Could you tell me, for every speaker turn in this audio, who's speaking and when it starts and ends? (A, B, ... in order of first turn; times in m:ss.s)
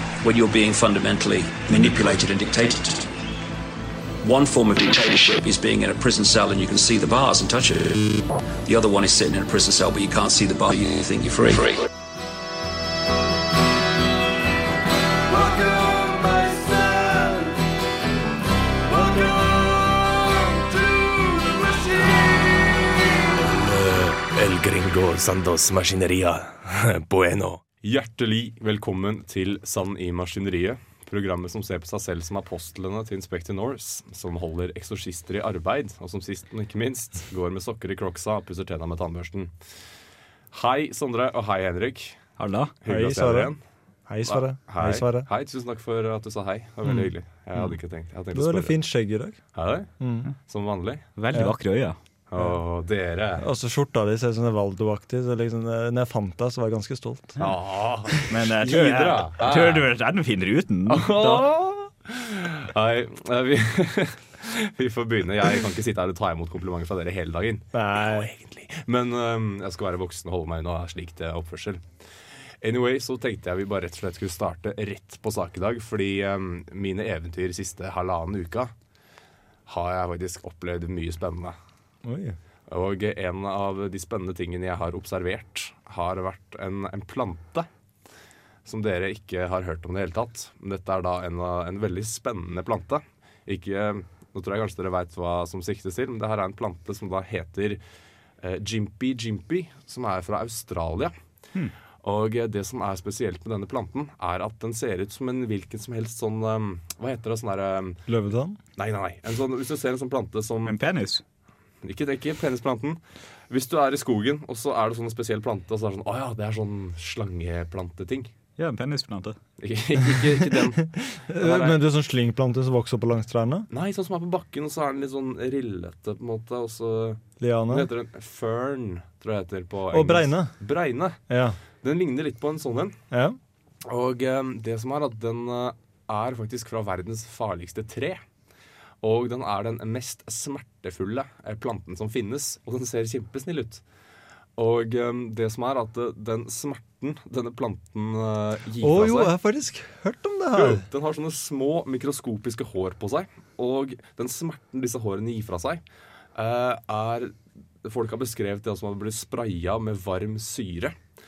0:00.2-0:03.1 A
0:04.2-0:11.8 A
0:15.4-0:17.2 B
0:23.3-0:27.6 C
0:27.8-0:39.5 D
0:40.5-0:42.2 D
0:42.4-0:42.7 E
0:42.8-0:43.6 D
0:42.9-0:43.5 B
0:44.1-0:45.3 B
0:44.2-0:48.7 D
0:46.8-0:47.1 B
0:48.3-0:49.4 B
0:49.5-0:49.9 D
0:50.0-0:50.3 B
0:50.4-0:51.0 D
0:51.2-0:52.0 E
0:52.3-0:53.4 D
0:53.4-0:57.4 B
0:57.4-0:59.9 D
0:58.3-1:01.4 E
1:00.9-1:11.8 D
1:07.7-1:08.3 B
1:12.6-1:18.7 D
1:19.7-1:21.6 D
1:22.0-1:22.4 B
1:22.7-1:27.7 D
1:28.6-1:37.8 D
1:38.4-1:41.1 D
1:42.0-1:48.0 D
1:48.1-1:48.6 B
1:48.8-1:50.8 D
1:50.6-1:51.2 E
1:51.8-1:58.3 D
1:58.6-1:59.4 E
1:59.6-2:01.8 D
2:01.1-2:03.7 B
2:03.7-2:11.2 D
2:07.4-2:07.9 B
2:09.9-2:10.5 B
2:11.3-2:11.6 B
2:11.8-2:13.0 D
2:13.1-2:13.4 B
2:13.9-2:18.2 D
2:19.0-2:23.8 D
2:24.6-2:29.3 D
2:28.8-2:30.8 B
2:30.5-2:35.8 D
2:36.3-2:40.9 D